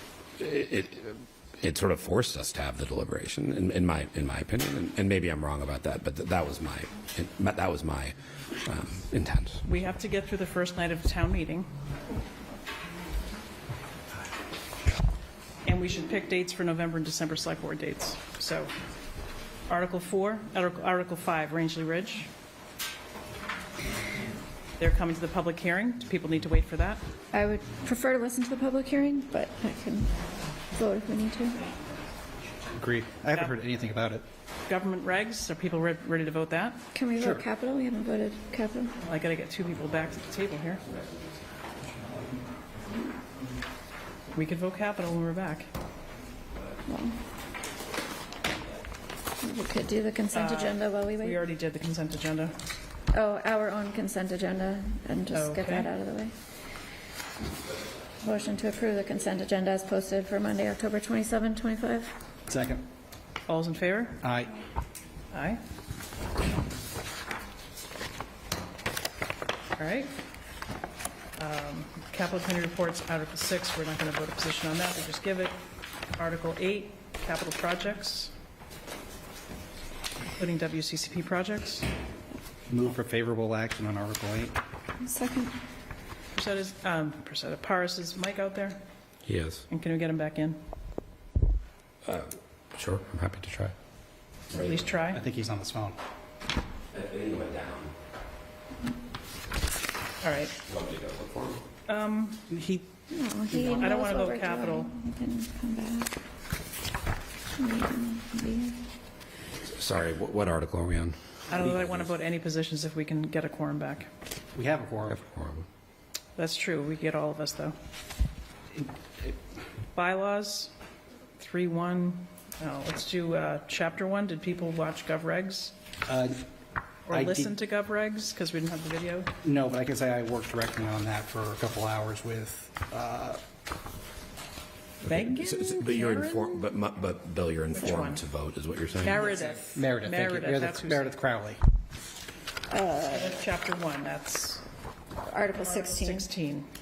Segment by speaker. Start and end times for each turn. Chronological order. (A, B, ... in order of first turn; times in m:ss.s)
0:00.4-0:09.6 A
0:09.6-0:11.7 B
0:15.6-0:18.7 B
0:19.7-0:22.3 B
0:24.8-0:27.0 B
0:27.3-0:30.1 C
0:30.7-0:31.7 C
0:32.7-0:34.2 D
0:33.3-0:33.6 B
0:34.7-0:36.9 B
0:36.9-0:39.0 C
0:37.2-0:37.4 D
0:39.0-0:40.8 B
0:44.3-0:45.7 B
0:46.9-0:47.2 C
0:49.4-0:51.4 C
0:50.3-0:52.6 B
0:53.1-0:56.3 C
0:55.3-0:55.9 B
0:58.2-1:02.2 C
1:02.5-1:02.8 D
1:03.5-1:04.3 B
1:04.2-1:04.5 D
1:05.3-1:05.6 B
1:09.8-1:10.1 B
1:11.4-1:15.6 B
1:16.2-1:18.3 B
1:20.4-1:21.9 B
1:22.7-1:24.6 D
1:25.0-1:25.5 C
1:26.3-1:28.8 B
1:29.3-1:29.6 A
1:29.7-1:30.6 B
1:32.1-1:33.8 A
1:34.5-1:34.8 A
1:34.6-1:35.2 B
1:35.1-1:36.0 D
1:36.9-1:37.9 A
1:40.2-1:40.6 B
1:40.7-1:41.6 A
1:41.9-1:42.5 B
1:42.5-1:42.8 D
1:43.1-1:46.1 C
1:43.6-1:44.9 B
1:47.6-1:48.8 C
1:49.6-1:52.0 A
1:51.5-1:54.1 B
1:54.5-1:55.2 D
1:55.1-1:55.7 A
1:56.4-1:57.8 B
2:00.0-2:00.7 B
2:01.4-2:05.7 B
2:06.1-2:06.4 D
2:07.1-2:09.3 B
2:07.1-2:07.5 D
2:09.4-2:13.4 D
2:15.0-2:16.5 B
2:15.1-2:19.2 A
2:17.7-2:18.2 B
2:19.0-2:21.1 B
2:19.7-2:21.6 D
2:22.7-2:23.3 C
2:23.1-2:24.6 B
2:25.3-2:26.3 C
2:25.6-2:26.7 B